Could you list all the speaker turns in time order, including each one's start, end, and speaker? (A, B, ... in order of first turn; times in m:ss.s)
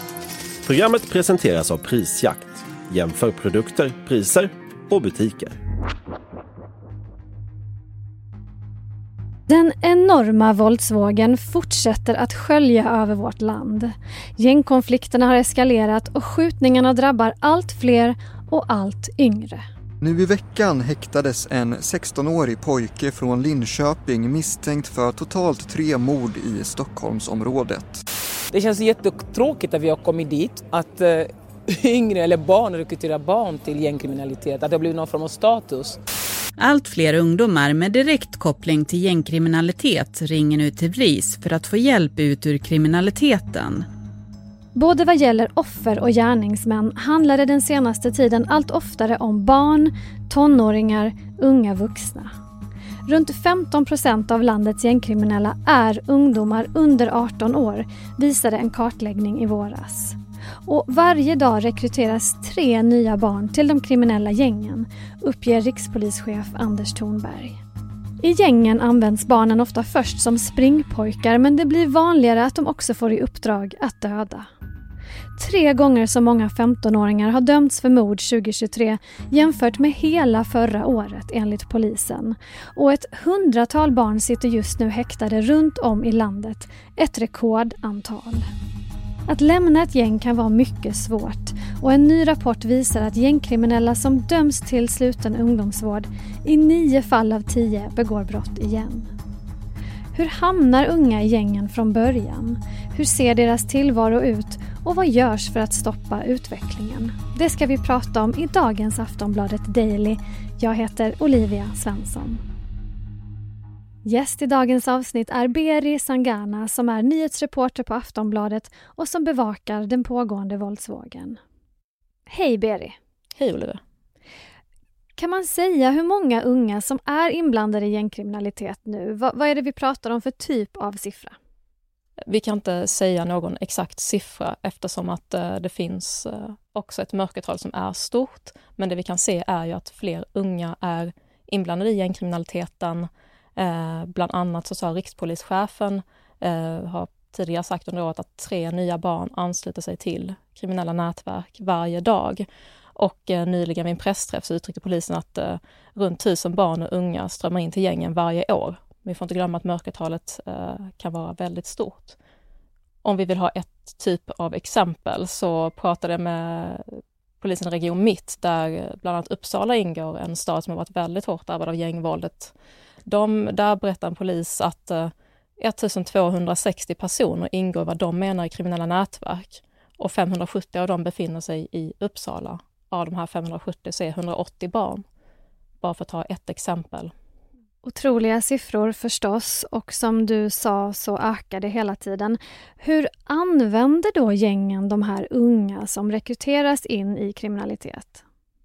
0:00.6-0:05.6 A
0:09.5-0:19.6 B
0:20.0-0:28.0 C
0:28.5-0:31.3 D
0:31.8-0:36.0 D
0:36.6-0:43.8 E
0:44.8-0:52.3 B
0:53.1-1:07.6 B
1:08.2-1:14.5 B
1:15.4-1:28.5 B
1:29.3-1:39.1 B
1:40.1-1:52.4 B
1:54.0-2:01.4 B
2:02.3-2:03.0 B
2:03.4-2:03.8 F
2:05.2-2:11.4 B
2:12.3-2:42.2 F
2:43.0-2:52.5 F
2:53.1-3:05.0 F
3:05.8-3:07.1 F
3:07.8-3:18.2 B